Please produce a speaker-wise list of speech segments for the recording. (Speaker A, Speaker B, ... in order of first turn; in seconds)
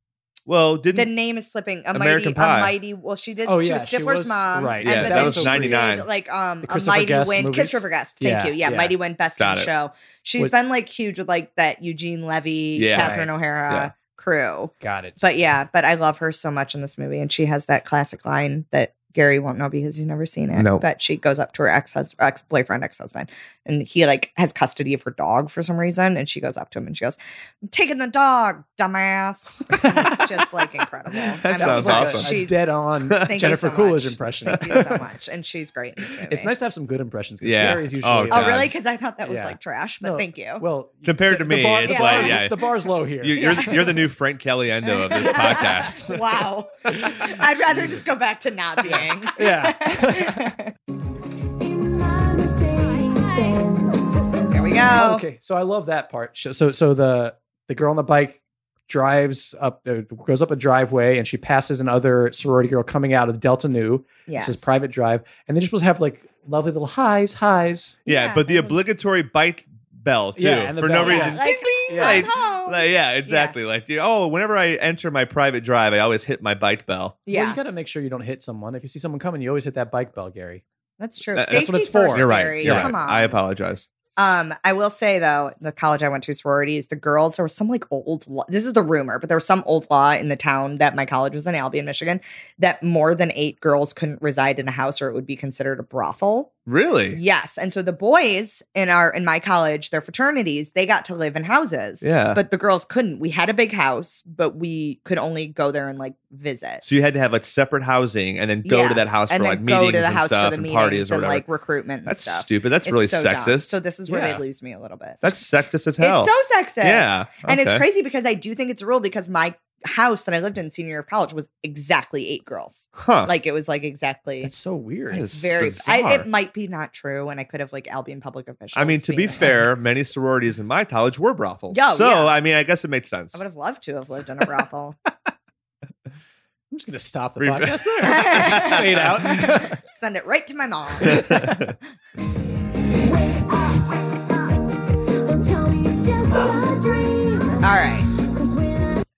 Speaker A: 0.5-1.1, 1.9-2.7, 4.8-6.0, 9.4-9.7, 12.8-13.2, 20.5-20.8, 29.8-30.1, 31.4-32.4, 33.1-33.3, 37.4-38.7, 41.0-42.6, 43.2-46.2, 68.0-77.2, 81.3-83.9, 96.7-97.2, 102.0-102.4, 106.8-111.5, 112.0-113.8, 115.2-117.8, 123.0-123.3, 125.1-126.2, 128.7-133.4, 137.4-139.4, 141.0-141.7
Speaker B: 0.9-32.6, 33.2-36.5, 38.3-40.6, 41.9-42.5, 43.3-44.0, 44.8-50.7, 54.5-55.2, 64.3-64.7, 68.0-68.8, 71.0-73.5, 77.3-77.6, 81.0-83.4, 84.2-96.5, 97.1-106.8, 108.6-115.2, 116.0-124.5, 125.2-129.5, 131.7-132.3, 133.3-135.0, 138.0-141.6, 147.6-148.1
Speaker C: 3.4-5.8, 6.6-8.9, 12.9-13.3, 14.8-15.2, 31.5-35.0, 36.3-38.7, 39.2-43.8, 47.2-48.0, 48.9-50.5, 54.9-68.0, 70.3-72.3, 77.3-80.6, 81.5-82.9, 114.1-114.4, 124.4-126.2, 136.7-139.8, 141.1-141.4
Speaker D: 51.6-54.4, 143.0-144.2, 145.2-149.0